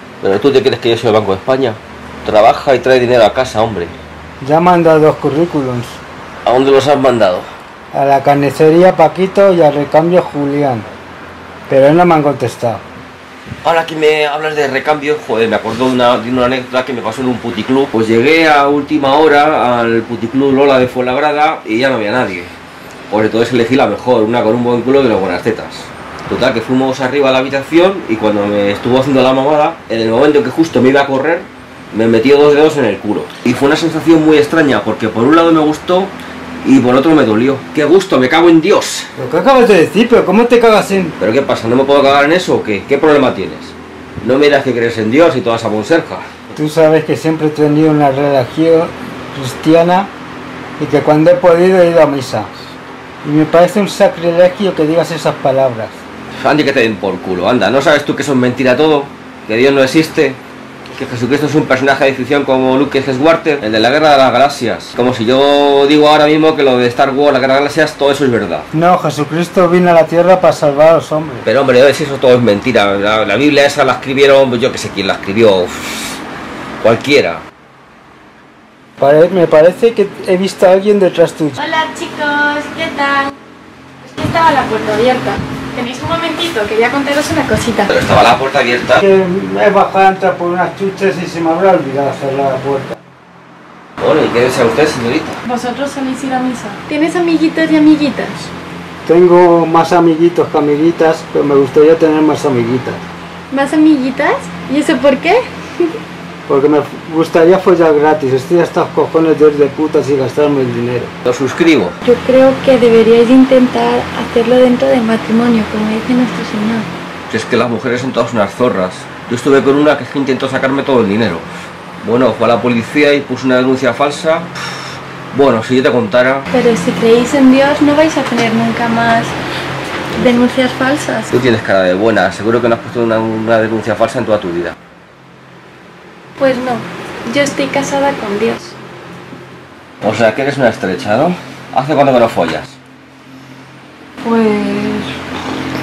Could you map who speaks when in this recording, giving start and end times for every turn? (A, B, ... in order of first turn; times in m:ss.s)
0:00.2-0:03.9 A
0:04.4-0:06.0 B
0:06.5-0:07.5 A
0:07.9-0:10.9 B
0:11.7-0:12.8 B
0:13.6-0:22.5 A
0:23.1-0:39.1 A
0:39.2-0:41.2 B
0:41.2-0:46.3 A
0:46.6-0:50.1 B
0:50.8-0:52.5 B
0:53.2-0:56.0 B
0:56.4-1:00.4 A
1:00.9-1:08.7 A
1:08.7-1:11.4 B
1:11.4-1:16.2 A
1:16.8-1:17.4 A
1:19.0-1:21.6 B
1:21.6-1:23.3 C
1:24.0-1:27.9 C
1:27.9-1:29.0 A
1:29.0-1:33.0 B
1:34.0-1:35.4 A
1:35.5-1:38.5 C
1:39.0-1:43.0 B
1:43.5-1:45.9 C
1:46.5-1:51.1 B
1:51.2-1:52.0 A
1:52.0-1:56.9 C
1:57.3-2:01.5 A
2:02.0-2:04.8 A
2:05.3-2:06.5 A
2:06.5-2:09.3 C
2:10.2-2:11.3 C
2:11.3-2:14.8 A
2:16.4-2:18.8 C
2:20.0-2:22.8 A
2:24.2-2:25.2 C